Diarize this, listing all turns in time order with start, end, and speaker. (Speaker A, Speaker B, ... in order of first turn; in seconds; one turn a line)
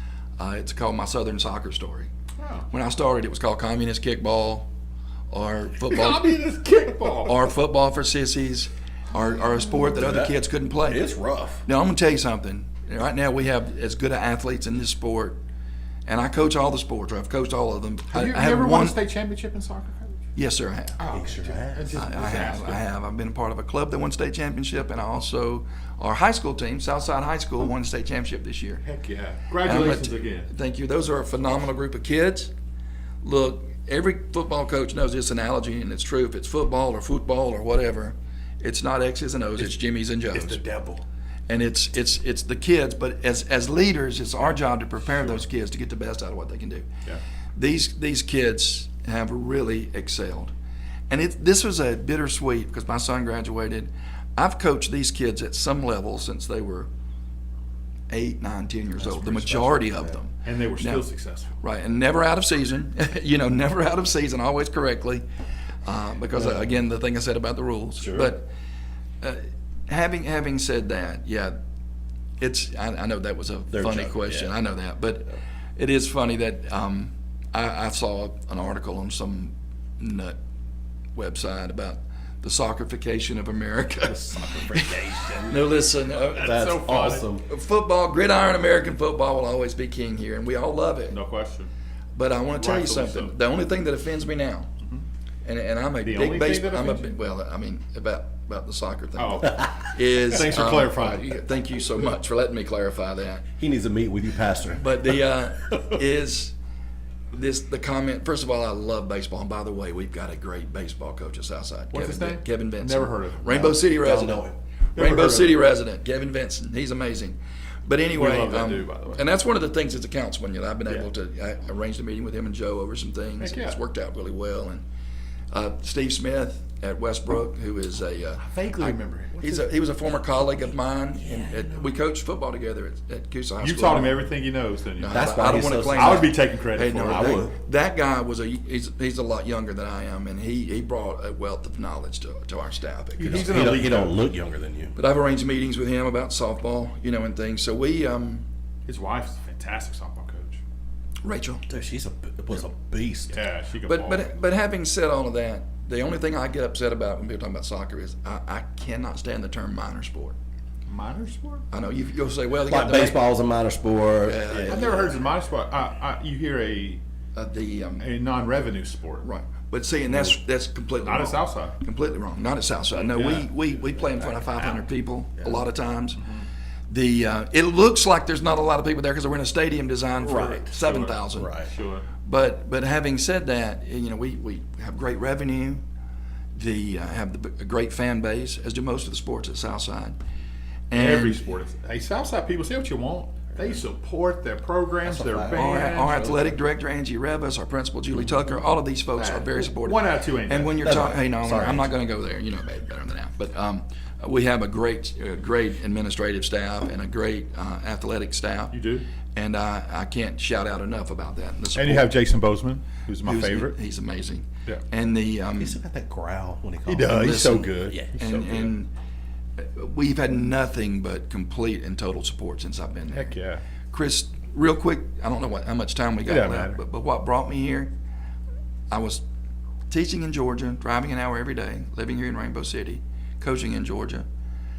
Speaker A: 0.4-2.1
Speaker B: 2.4-2.7
Speaker A: 2.7-4.7
Speaker A: 5.3-6.4
Speaker B: 5.8-7.5
Speaker A: 7.2-11.1
Speaker C: 9.7-11.7
Speaker A: 11.6-15.4
Speaker A: 16.1-19.0
Speaker B: 18.1-20.2
Speaker A: 20.3-21.0
Speaker B: 21.0-22.8
Speaker C: 21.1-22.0
Speaker A: 21.9-28.8
Speaker B: 28.8-30.5
Speaker A: 29.6-32.5
Speaker A: 33.2-40.6
Speaker B: 40.3-41.0
Speaker A: 41.5-46.9
Speaker A: 47.5-50.5
Speaker A: 51.1-56.9
Speaker A: 58.1-61.0
Speaker C: 59.0-60.2
Speaker B: 60.4-61.5
Speaker A: 61.6-65.2
Speaker A: 65.8-68.5
Speaker C: 68.0-68.3
Speaker A: 69.2-71.5
Speaker A: 72.4-80.4
Speaker C: 73.7-74.5
Speaker A: 81.1-91.2
Speaker C: 84.0-85.7
Speaker B: 86.3-87.2
Speaker C: 86.4-87.5
Speaker B: 91.1-91.7
Speaker A: 92.2-94.7
Speaker B: 92.5-93.3
Speaker A: 95.4-103.5
Speaker B: 96.0-97.2
Speaker B: 99.2-101.4
Speaker C: 103.6-105.2
Speaker A: 104.7-106.5
Speaker A: 107.3-124.8
Speaker B: 111.9-113.7
Speaker C: 113.5-115.5
Speaker B: 115.0-115.5
Speaker B: 118.1-119.2
Speaker B: 123.4-123.8
Speaker A: 125.5-134.2
Speaker B: 128.4-129.6
Speaker C: 131.2-131.9
Speaker B: 133.6-137.4
Speaker A: 135.0-143.9
Speaker C: 135.1-136.3
Speaker C: 137.1-137.5
Speaker B: 143.2-144.2
Speaker C: 143.2-145.0
Speaker A: 144.9-148.4
Speaker B: 148.9-150.6
Speaker A: 151.2-151.6
Speaker C: 151.7-153.4
Speaker B: 153.3-154.3
Speaker A: 153.8-160.3
Speaker B: 160.9-161.6
Speaker A: 161.7-163.3
Speaker C: 162.7-165.1
Speaker A: 164.2-165.1
Speaker B: 164.7-167.0
Speaker A: 167.3-168.1
Speaker B: 168.0-169.2
Speaker A: 169.2-176.3
Speaker B: 171.0-171.8
Speaker B: 173.0-173.5
Speaker B: 174.3-174.8
Speaker A: 176.9-181.6
Speaker C: 180.2-180.8
Speaker B: 180.8-182.1
Speaker C: 181.3-181.7
Speaker A: 182.2-185.8
Speaker A: 186.5-190.2
Speaker A: 190.9-191.4
Speaker B: 190.9-196.3
Speaker C: 195.0-196.5
Speaker A: 195.5-208.8
Speaker B: 199.2-200.8
Speaker C: 200.8-201.9
Speaker B: 208.7-209.1
Speaker A: 209.3-212.1
Speaker B: 211.7-213.7
Speaker A: 213.2-215.8
Speaker C: 215.6-218.1
Speaker B: 216.8-218.7
Speaker A: 217.1-218.9
Speaker A: 219.6-223.3
Speaker B: 223.1-223.6
Speaker A: 223.9-227.9
Speaker B: 226.2-226.8
Speaker A: 228.9-229.2
Speaker A: 229.9-234.2